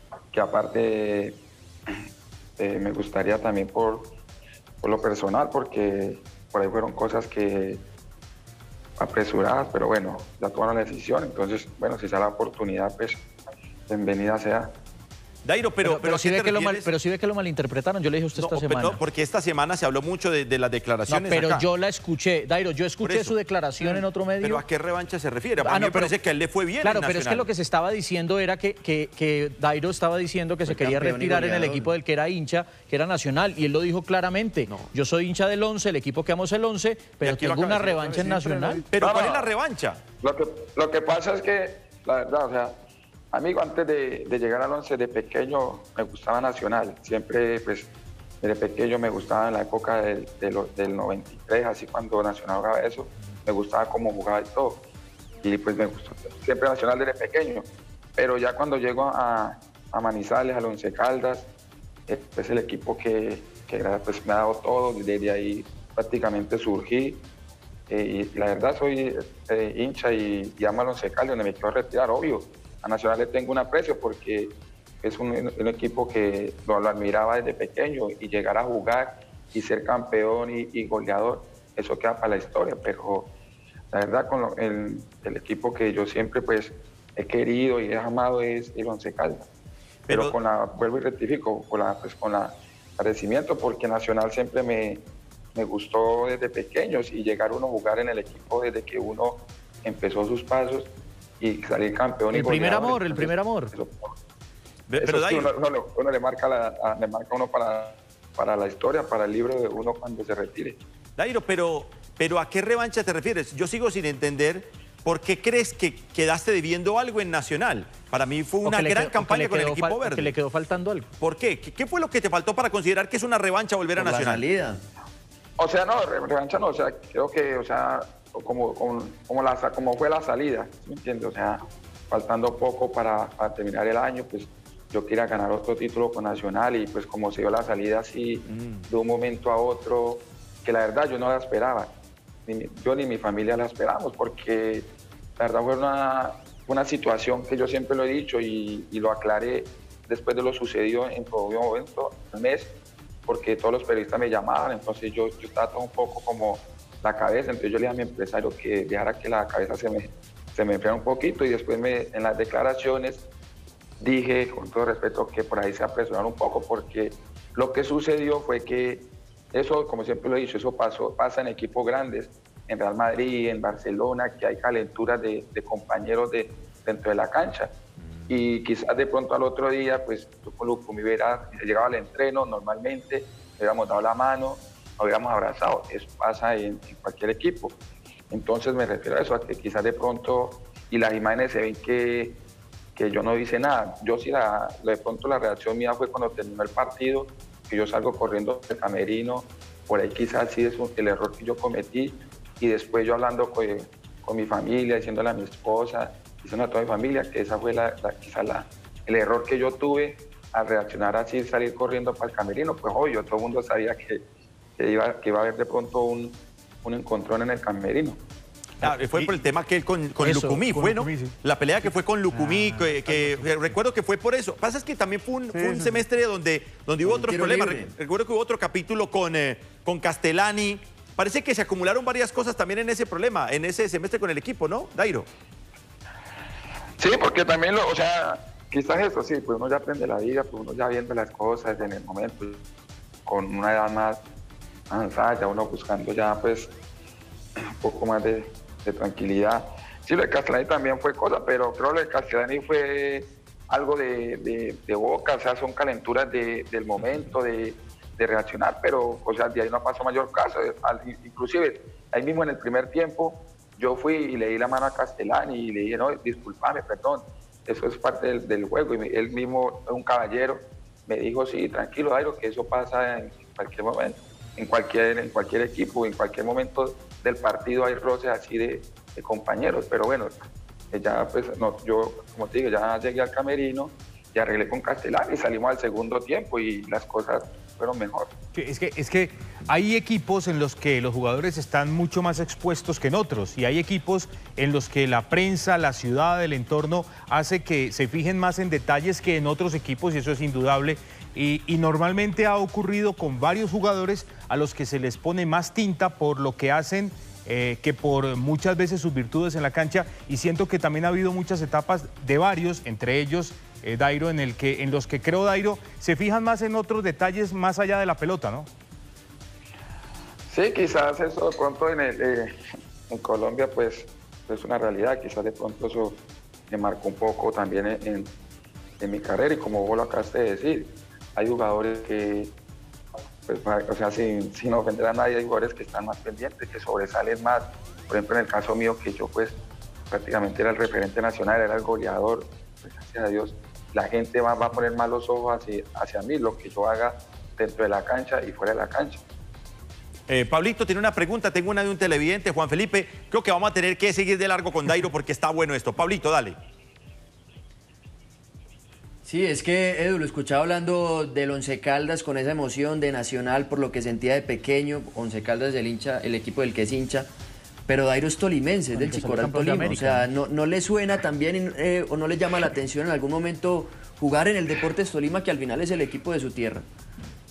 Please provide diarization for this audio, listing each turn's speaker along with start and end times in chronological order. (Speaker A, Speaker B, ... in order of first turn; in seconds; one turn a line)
Speaker A: 0.3-1.4
Speaker A: 2.6-4.0
Speaker A: 4.8-7.8
Speaker A: 9.0-13.2
Speaker A: 13.9-14.7
Speaker B: 15.4-16.9
Speaker C: 15.8-19.0
Speaker B: 18.4-21.7
Speaker C: 21.1-24.6
Speaker B: 23.0-23.3
Speaker B: 23.9-27.5
Speaker C: 25.6-26.2
Speaker C: 26.8-38.9
Speaker D: 30.6-31.9
Speaker B: 37.2-38.3
Speaker B: 38.9-40.0
Speaker A: 39.0-39.4
Speaker A: 40.2-42.7
Speaker A: 43.3-47.9
Speaker A: 48.4-54.8
Speaker A: 55.4-57.6
Speaker A: 58.2-61.5
Speaker A: 62.1-67.2
Speaker A: 67.9-74.5
Speaker A: 75.0-83.3
Speaker A: 83.9-89.4
Speaker B: 90.0-90.3
Speaker A: 90.1-95.0
Speaker A: 95.5-100.9
Speaker A: 101.4-104.1
Speaker C: 102.3-103.7
Speaker B: 104.9-105.5
Speaker A: 105.0-110.8
Speaker B: 111.2-120.3
Speaker C: 118.6-121.1
Speaker B: 121.2-124.4
Speaker D: 124.0-124.8
Speaker A: 125.6-141.9
Speaker A: 142.4-144.9
Speaker A: 145.4-152.7
Speaker A: 153.3-163.2
Speaker A: 164.0-177.7
Speaker A: 178.3-187.7
Speaker A: 188.3-192.3
Speaker A: 192.9-214.2
Speaker A: 214.8-218.2
Speaker B: 218.8-235.3
Speaker E: 218.8-219.4
Speaker C: 220.2-220.8
Speaker E: 220.8-221.3
Speaker C: 222.3-222.9
Speaker D: 227.0-227.9
Speaker A: 237.0-242.6
Speaker A: 243.2-244.2
Speaker A: 244.9-246.7
Speaker A: 247.8-280.3
Speaker A: 280.9-288.3
Speaker E: 288.5-318.7
Speaker A: 320.5-322.5
Speaker A: 323.1-326.2
Speaker A: 326.7-328.3
Speaker A: 329.0-332.5
Speaker A: 333.5-339.6
Speaker A: 340.1-349.2
Speaker B: 350.3-356.6
Speaker D: 359.2-367.3
Speaker D: 367.9-376.9
Speaker C: 368.9-370.3